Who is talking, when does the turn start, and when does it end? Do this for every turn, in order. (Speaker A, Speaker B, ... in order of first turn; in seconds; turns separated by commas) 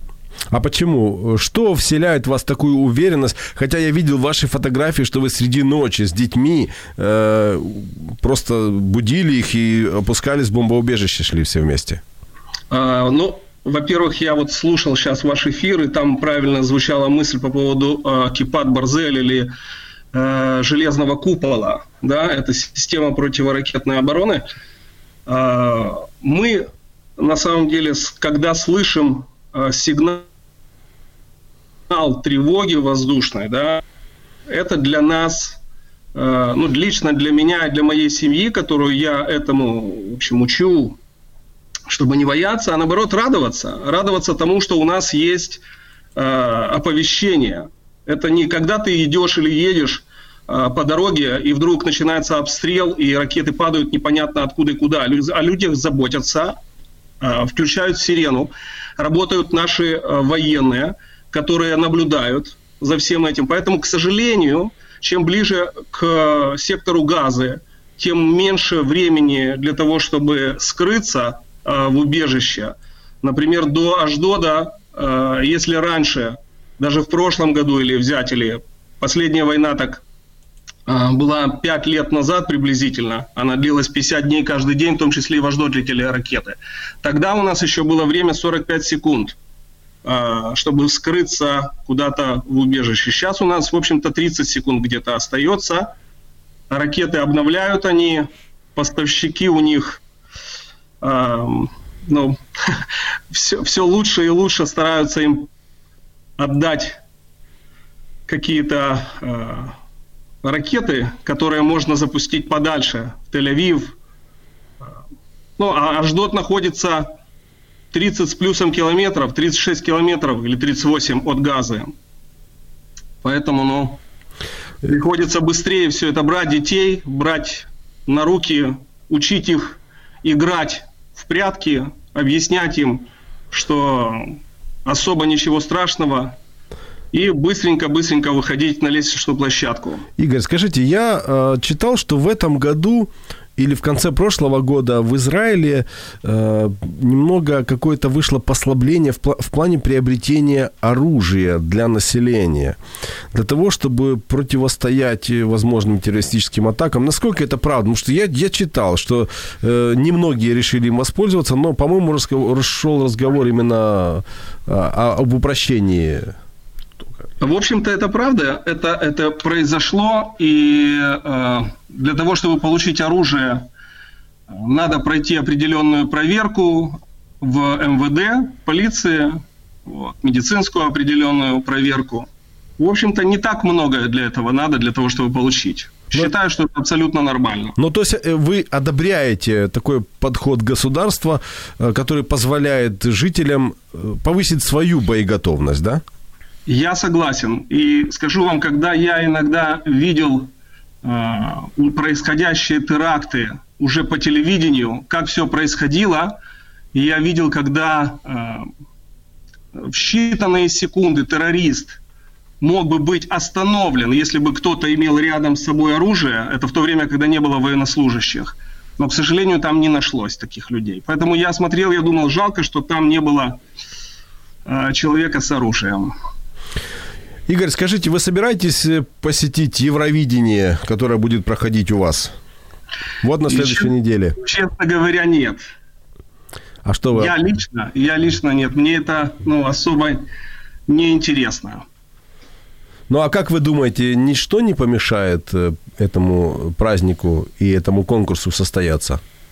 Speaker A: 0.5-12.0, Speaker B: 12.7-19.5, Speaker B: 20.1-24.5, Speaker B: 25.3-30.3, Speaker B: 31.9-33.8, Speaker B: 34.5-35.6, Speaker B: 36.1-41.0, Speaker B: 41.9-45.6, Speaker B: 46.2-56.6, Speaker B: 57.2-80.0, Speaker B: 80.9-89.4, Speaker B: 90.0-95.9, Speaker B: 96.7-100.0, Speaker B: 101.0-105.5, Speaker B: 106.4-107.0, Speaker B: 108.3-109.8, Speaker B: 110.4-114.0, Speaker B: 115.6-117.1, Speaker B: 117.9-121.9, Speaker B: 123.2-124.0, Speaker B: 124.8-136.4, Speaker B: 137.1-140.1, Speaker A: 140.2-152.8, Speaker A: 153.3-166.3, Speaker B: 167.4-173.7, Speaker B: 174.5-187.8, Speaker A: 187.8-196.0, Speaker B: 196.7-200.5, Speaker B: 201.0-206.4, Speaker B: 206.9-208.7, Speaker B: 209.8-212.0, Speaker B: 212.6-223.6, Speaker B: 224.7-226.1, Speaker A: 227.5-232.3, Speaker A: 233.2-234.4, Speaker B: 233.5-235.7, Speaker A: 236.8-237.3, Speaker B: 237.1-240.3, Speaker B: 240.9-241.8, Speaker A: 243.1-249.2